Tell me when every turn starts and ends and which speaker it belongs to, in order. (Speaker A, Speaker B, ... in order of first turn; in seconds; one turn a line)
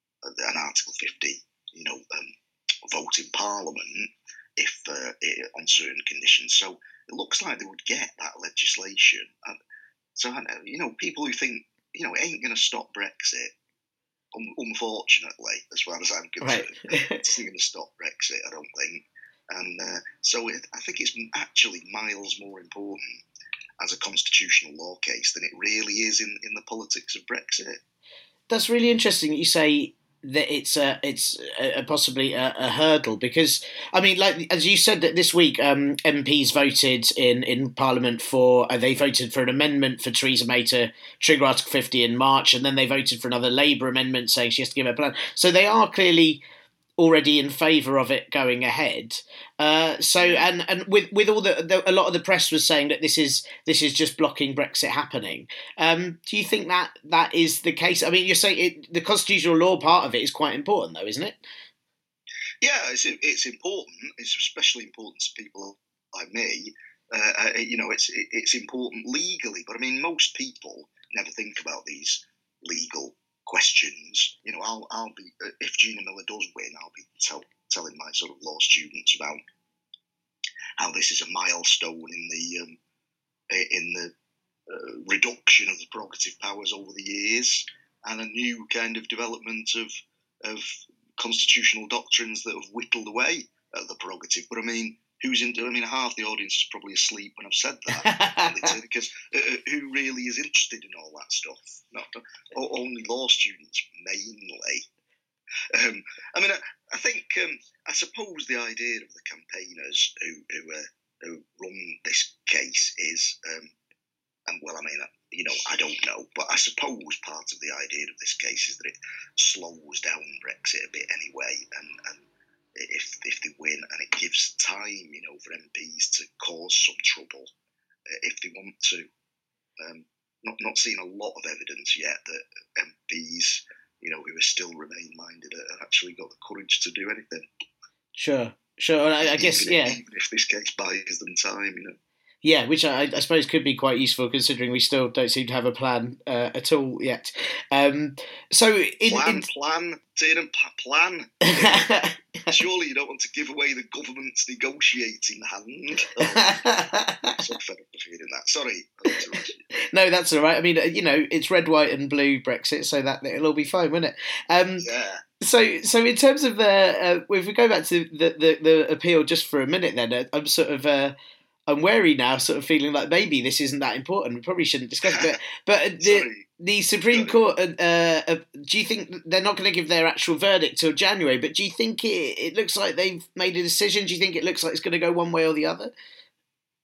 Speaker A: 0.2-2.3
Speaker A: 2.9-9.6
Speaker A: 10.2-13.5
Speaker A: 14.3-23.2
Speaker B: 16.4-17.2
Speaker A: 23.8-27.8
Speaker B: 28.5-46.4
Speaker B: 47.0-61.4
Speaker A: 50.2-50.5
Speaker A: 62.6-79.4
Speaker A: 80.8-82.8
Speaker A: 83.5-84.1
Speaker A: 84.7-104.8
Speaker B: 97.9-98.7
Speaker A: 105.7-113.7
Speaker A: 114.5-122.2
Speaker A: 122.8-127.5
Speaker A: 128.1-129.1
Speaker A: 129.8-137.5
Speaker B: 138.2-140.0
Speaker A: 139.2-142.0
Speaker B: 142.4-149.5
Speaker A: 149.1-151.9
Speaker B: 151.5-152.6
Speaker A: 152.5-156.6
Speaker B: 156.2-157.4
Speaker A: 157.4-159.6
Speaker B: 159.8-164.9
Speaker A: 164.8-165.2
Speaker B: 165.4-171.2
Speaker B: 171.7-185.9
Speaker A: 175.1-175.3
Speaker A: 176.0-176.5
Speaker A: 177.1-177.4